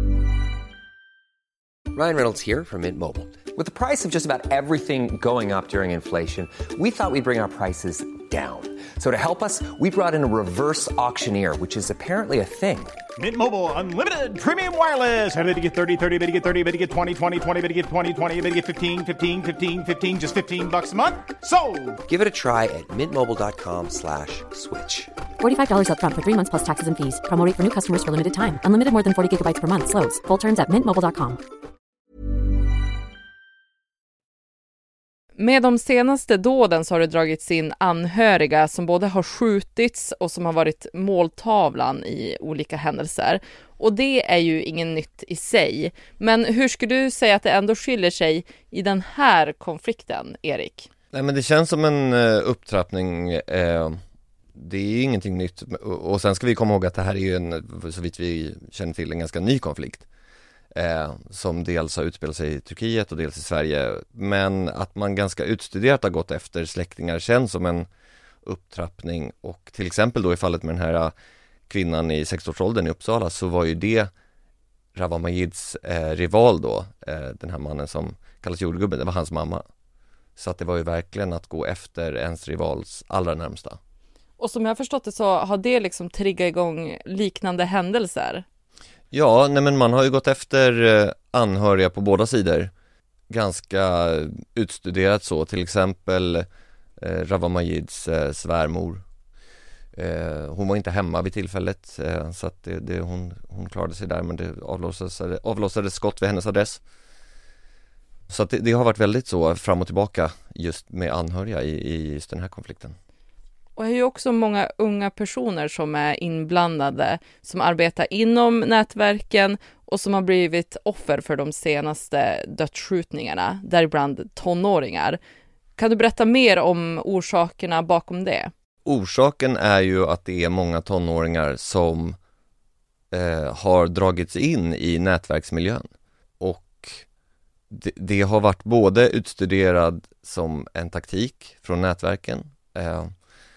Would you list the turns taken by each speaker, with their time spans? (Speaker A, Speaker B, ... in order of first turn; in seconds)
Speaker A: 1.9-13.0, 22.1-25.1
Speaker B: 13.2-22.0
Speaker C: 25.4-31.4
Speaker D: 35.4-50.9, 84.4-88.4, 113.8-125.2, 125.8-128.5
Speaker E: 51.1-54.0, 54.5-60.1, 60.7-67.9, 68.5-71.1, 71.7-74.1, 75.0-79.6, 80.4-83.8, 89.1-92.7, 93.3-96.5, 97.0-99.0, 100.0-106.8, 108.3-113.0, 128.8-132.2, 133.1-135.8, 136.4-137.0, 137.7-143.1